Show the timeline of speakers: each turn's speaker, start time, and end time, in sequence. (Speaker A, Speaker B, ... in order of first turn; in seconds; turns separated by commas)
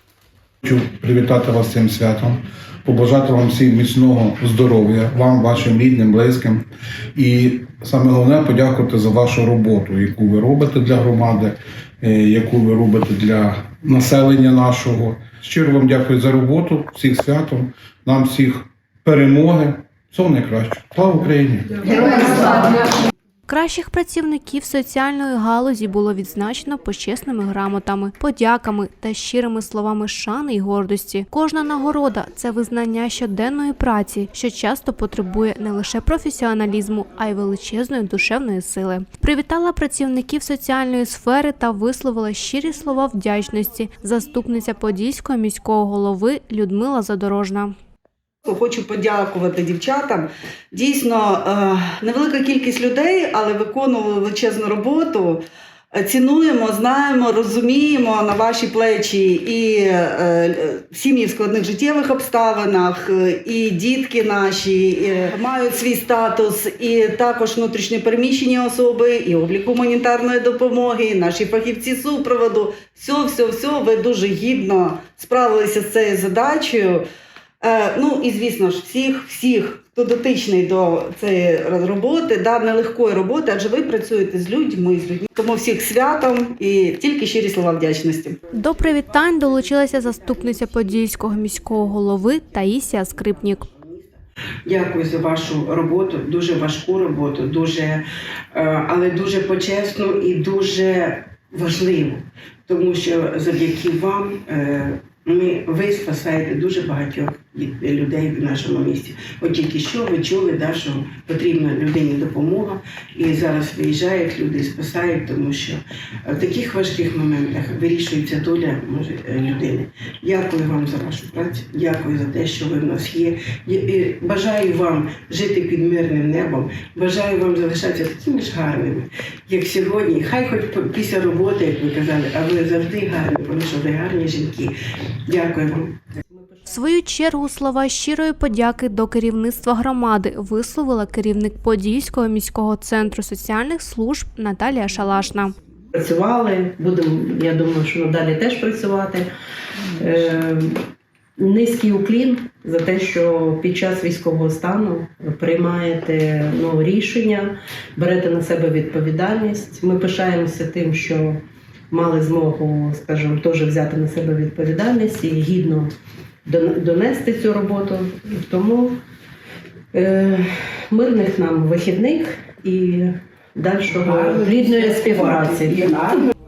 Speaker A: 0.6-22.7, Speaker B: 23.5-47.7, Speaker C: 48.4-55.4, Speaker C: 55.9-77.0, Speaker C: 77.6-88.4, Speaker B: 88.5-93.7, Speaker D: 88.7-98.0, Speaker D: 98.5-134.7, Speaker D: 135.3-136.0, Speaker E: 136.3-136.8, Speaker B: 136.7-145.5, Speaker E: 145.9-149.3, Speaker E: 149.9-150.8, Speaker E: 151.4-165.9, Speaker E: 166.4-169.0, Speaker E: 169.9-176.3, Speaker D: 173.9-176.2